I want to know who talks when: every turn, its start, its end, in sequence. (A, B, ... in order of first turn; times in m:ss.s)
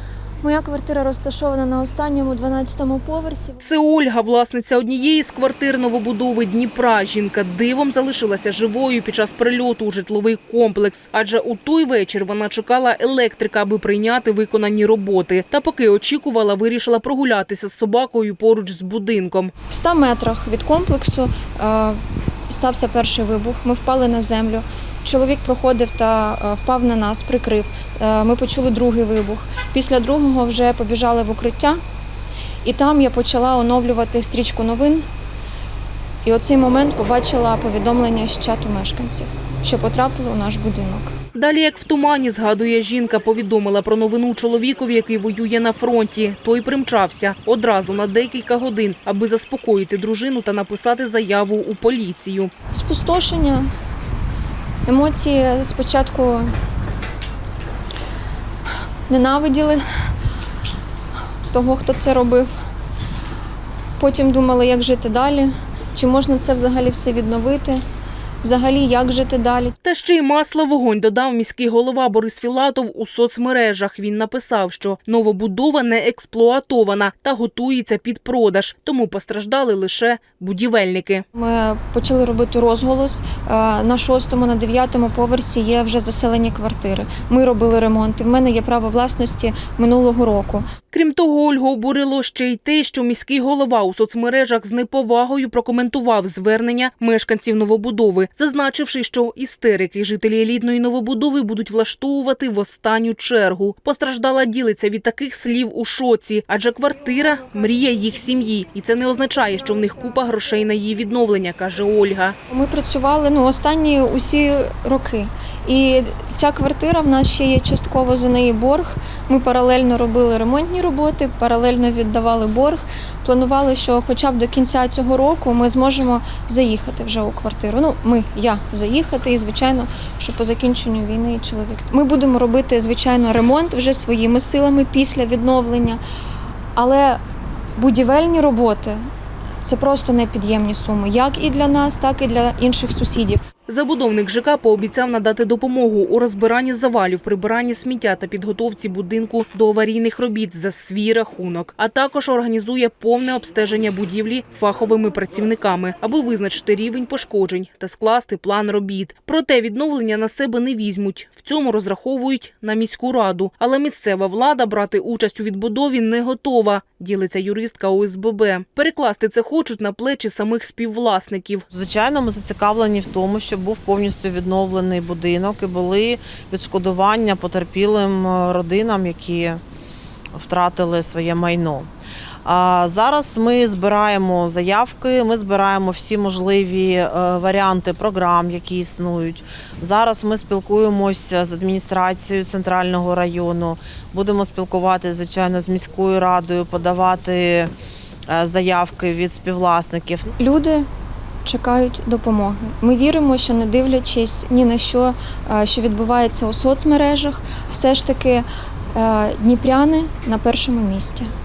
0:00.4-0:03.6 A
0:03.6-0:19.5 B
0:19.7-0:31.8 A
0:32.6-0:35.0 A
0:36.2-0:41.1 A
0:41.3-0:52.5 B
0:52.7-0:53.7 A
0:54.8-0:56.5 A
0:59.1-0:59.8 A
1:01.5-1:02.5 A
1:04.0-1:07.8 A
1:08.4-1:09.8 A
1:09.8-1:21.2 B
1:21.3-1:30.6 A
1:30.9-1:52.4 B
1:52.5-2:16.0 A
2:16.8-2:17.2 A
2:17.8-2:19.0 A
2:19.6-2:23.4 A
2:23.7-2:51.6 B
2:51.7-2:59.6 C
3:00.3-3:01.9 C
3:02.4-3:17.7 C
3:18.3-3:20.3 C
3:20.4-3:20.9 A
3:21.4-3:31.3 A